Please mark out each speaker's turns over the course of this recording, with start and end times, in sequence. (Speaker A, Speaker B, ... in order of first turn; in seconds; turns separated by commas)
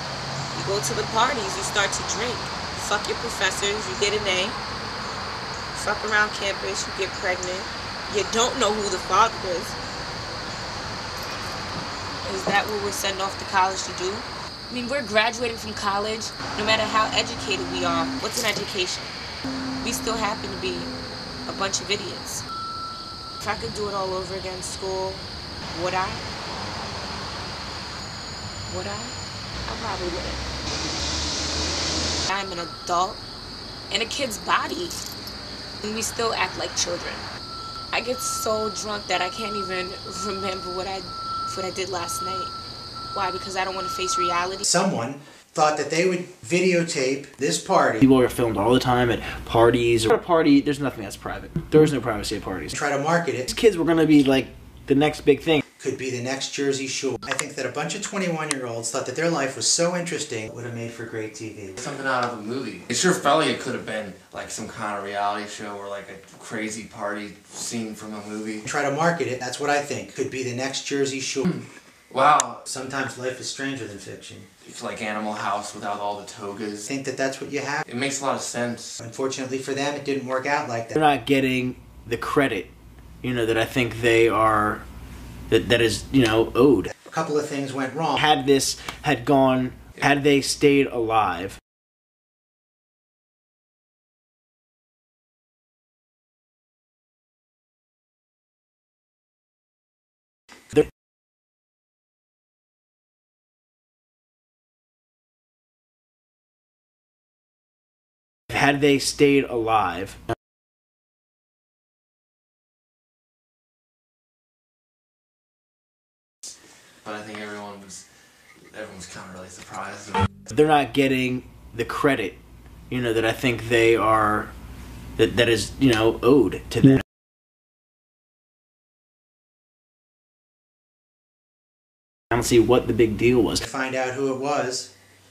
Speaker A: 0.5-4.6, Speaker A: 5.7-9.8, Speaker A: 12.2-19.2, Speaker A: 19.8-20.9, Speaker A: 21.5-22.4, Speaker A: 23.4-26.2, Speaker A: 28.7-30.4, Speaker A: 32.3-33.2, Speaker A: 33.9-35.0, Speaker A: 35.8-37.3, Speaker A: 37.9-42.5, Speaker A: 43.1-44.6, Speaker B: 44.6-48.0, Speaker C: 48.0-52.7, Speaker B: 52.7-53.5, Speaker C: 53.5-55.6, Speaker B: 55.8-61.8, Speaker D: 61.8-68.6, Speaker B: 68.6-71.5, Speaker D: 71.4-72.7, Speaker B: 72.7-74.5, Speaker D: 74.6-76.8, Speaker B: 76.8-77.8, Speaker D: 77.8-79.0, Speaker B: 79.0-80.9, Speaker C: 80.9-82.7, Speaker C: 83.2-84.8, Speaker C: 85.5-86.9, Speaker B: 87.1-88.2, Speaker C: 88.2-91.6, Speaker C: 108.5-110.2, Speaker D: 117.0-118.0, Speaker D: 118.6-120.3, Speaker C: 120.5-122.4, Speaker C: 122.9-124.5, Speaker C: 125.2-127.0, Speaker C: 132.3-133.6, Speaker B: 133.6-134.9